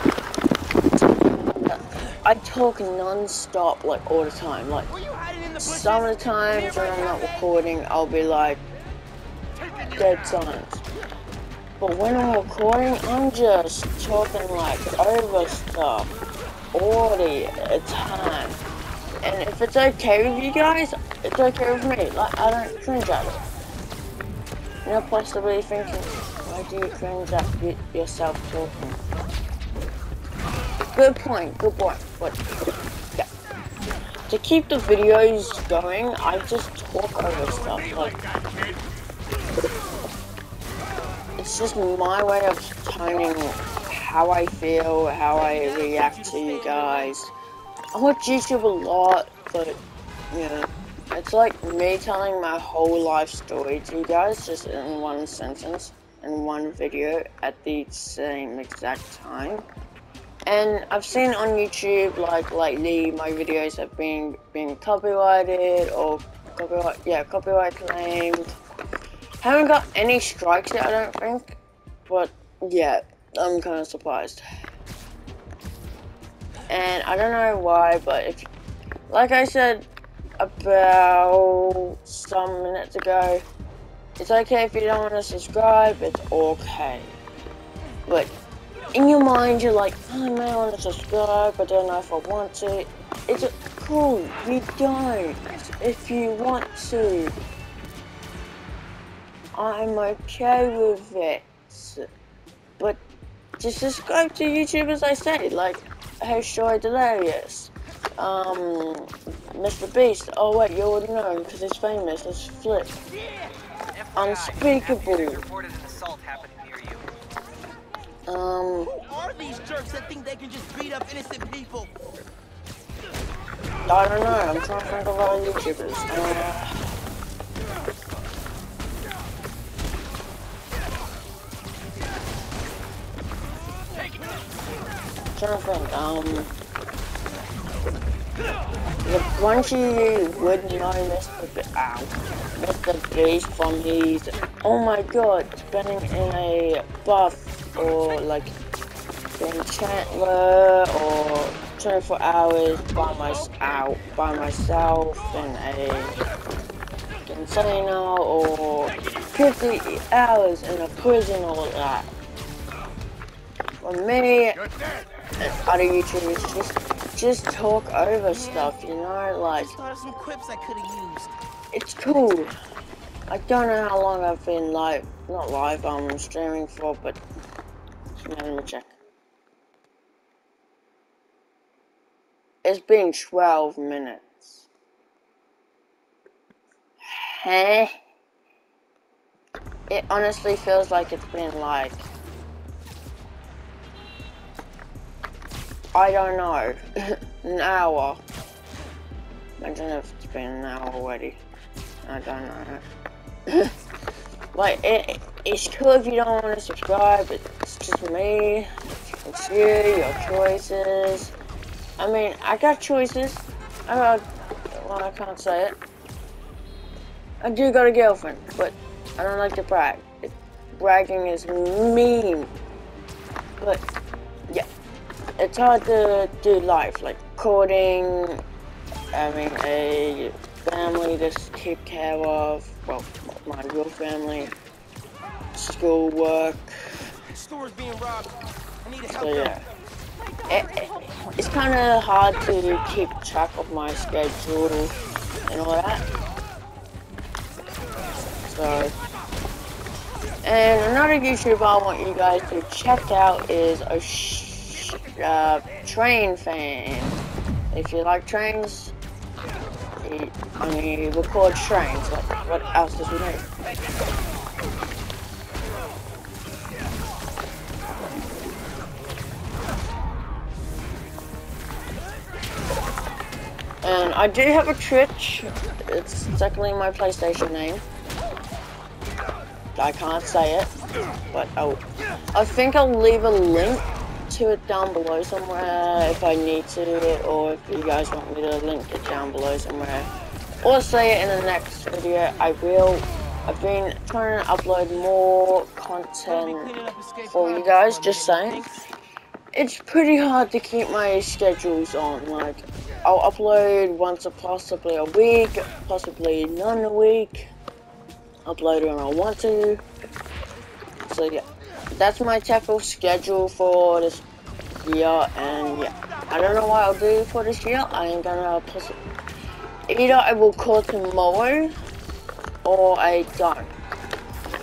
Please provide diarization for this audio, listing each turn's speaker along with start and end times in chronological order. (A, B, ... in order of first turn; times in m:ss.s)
0:01.7-0:04.9 A
0:04.9-0:07.0 B
0:05.6-0:08.6 A
0:09.9-0:10.8 A
0:11.8-0:16.1 A
0:16.7-0:18.6 A
0:19.2-0:23.4 A
0:24.8-0:29.0 A
0:30.9-0:32.4 A
0:34.3-0:38.2 A
0:41.4-0:47.3 A
0:45.4-0:47.1 B
0:47.9-0:49.8 A
0:50.3-0:59.6 A
1:00.4-1:08.4 A
1:09.4-1:14.4 A
1:16.7-1:18.5 A
1:19.1-1:19.8 A
1:20.4-1:23.4 A
1:24.2-1:27.1 A
1:28.9-1:37.4 A
1:39.5-1:42.0 A
1:43.6-1:52.9 A
1:53.2-1:53.5 B
1:53.9-1:57.1 C
1:54.2-1:55.4 A
1:58.3-1:58.9 A
1:58.8-2:01.9 B
2:03.9-2:06.7 A
2:15.4-2:16.5 A
2:19.0-2:28.5 A
2:29.4-2:36.1 A
2:37.3-2:42.1 A
2:43.8-2:44.6 A
2:45.4-2:49.7 A
2:48.3-2:48.7 B
2:49.6-2:51.4 B
2:51.7-2:52.5 A
2:53.3-2:57.2 A
2:58.1-2:58.9 A
3:02.6-3:04.7 A
3:07.0-3:07.9 A
3:09.9-3:12.1 A
3:15.9-3:16.8 A
3:17.4-3:18.2 A
3:19.6-3:21.4 A
3:22.0-3:22.8 A
3:24.5-3:28.7 A
3:29.2-3:31.3 A
3:32.0-3:35.8 A
3:37.4-3:42.5 A
3:45.4-3:48.4 A
3:49.1-3:54.5 A
3:55.5-3:56.7 A
3:57.3-3:59.5 B
3:59.1-3:59.6 A
4:00.5-4:04.9 A
4:05.5-4:06.0 A
4:08.5-4:08.9 A
4:10.4-4:17.2 A
4:17.7-4:18.9 A
4:20.0-4:23.4 A
4:33.8-4:37.8 A
4:39.8-4:40.7 A
4:41.3-4:50.1 A
4:50.6-4:56.7 A
4:56.2-4:58.9 B
4:57.2-4:58.6 A
4:59.5-5:07.5 A
5:08.4-5:09.8 A
5:11.1-5:14.2 A
5:14.8-5:19.0 A
5:19.9-5:21.7 A
5:22.6-5:23.7 A